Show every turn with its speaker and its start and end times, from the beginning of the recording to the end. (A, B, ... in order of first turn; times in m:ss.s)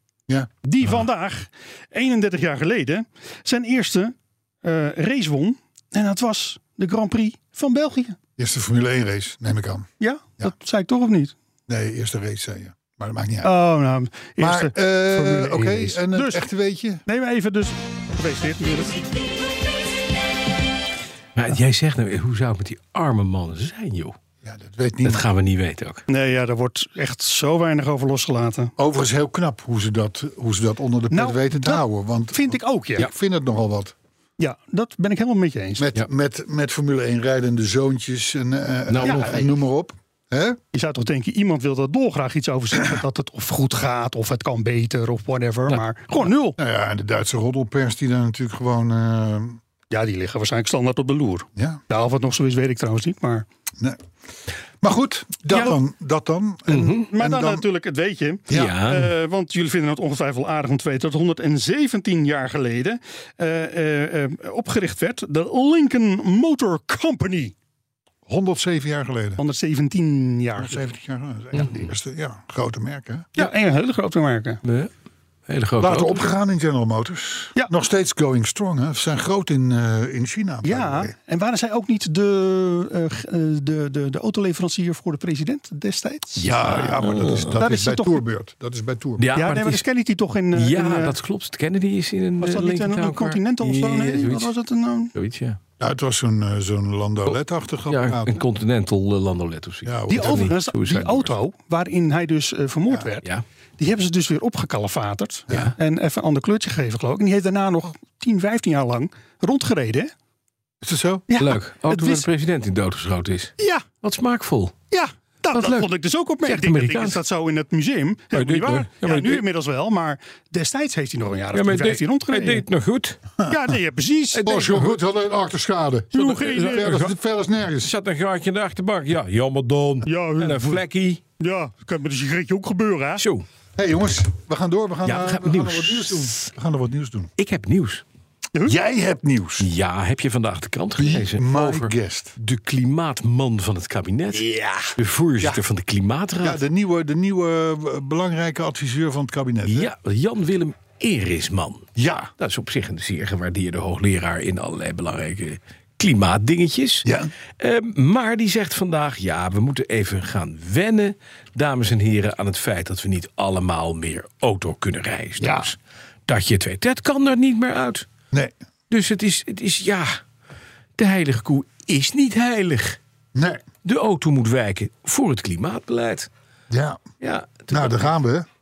0:00.3-0:01.0 A
0:00.6-0:08.2 B
0:08.4-0:09.9 A
0:10.0-0:11.4 B
0:11.7-0:13.5 A
0:13.4-0:16.4 B
0:14.4-0:17.0 A
0:17.1-0:19.3 B
0:21.4-0:24.2 C
0:24.4-0:25.2 A
0:25.0-0:26.0 C
0:26.1-0:28.7 B
0:28.8-0:34.0 A
0:31.1-0:33.1 B
0:34.4-0:35.9 B
0:35.8-0:40.6 A
0:38.9-0:39.4 C
0:39.0-0:39.4 B
0:40.7-0:46.6 B
0:45.7-0:46.2 C
0:46.6-0:49.6 A
0:49.9-0:53.5 B
0:51.6-0:51.8 A
0:54.8-0:57.6 A
0:55.5-0:55.8 B
0:56.7-0:57.1 C
0:57.1-1:07.5 B
0:58.5-0:58.8 A
0:58.5-0:59.1 C
1:08.3-1:09.4 A
1:09.4-1:10.9 B
1:10.6-1:13.3 A
1:13.4-1:14.6 B
1:14.6-1:14.9 C
1:15.5-1:16.3 C
1:15.8-1:21.1 A
1:20.6-1:26.6 B
1:26.4-1:27.6 C
1:26.4-1:29.3 A
1:27.3-1:28.2 B
1:29.2-1:29.8 C
1:29.4-1:31.2 B
1:30.5-1:34.5 C
1:32.4-1:35.1 B
1:35.1-1:35.6 C
1:35.8-1:38.4 A
1:37.3-1:41.3 C
1:39.8-1:40.5 A
1:40.1-1:43.2 B
1:43.8-1:50.1 B
1:50.8-1:51.2 A
1:51.3-1:52.3 B
1:51.4-1:54.8 C
1:53.6-1:53.8 B
1:54.9-2:02.6 B
1:55.5-1:55.9 C
1:56.4-1:57.2 C
1:58.3-1:59.4 C
2:01.5-2:03.2 C
2:03.5-2:04.8 B
2:04.4-2:05.0 C
2:04.4-2:07.9 A
2:06.1-2:07.0 B
2:06.2-2:07.2 C
2:07.8-2:11.2 C
2:10.1-2:10.8 B
2:11.4-2:13.2 B
2:13.2-2:13.4 C
2:13.8-2:17.3 A
2:15.0-2:16.5 C
2:17.4-2:18.0 C
2:18.7-2:19.7 A
2:19.6-2:26.6 C
2:21.0-2:22.4 A
2:24.4-2:25.6 A
2:26.4-2:29.9 A
2:29.6-2:37.1 C
2:32.0-2:32.3 A
2:37.0-2:37.3 A
2:37.6-2:48.1 C
2:45.4-2:45.7 A
2:48.9-2:50.2 C
2:51.0-2:53.0 C
2:53.4-2:53.6 A
2:53.8-2:56.3 C
2:56.7-2:57.0 A
2:57.2-2:58.1 C
2:57.7-2:58.5 A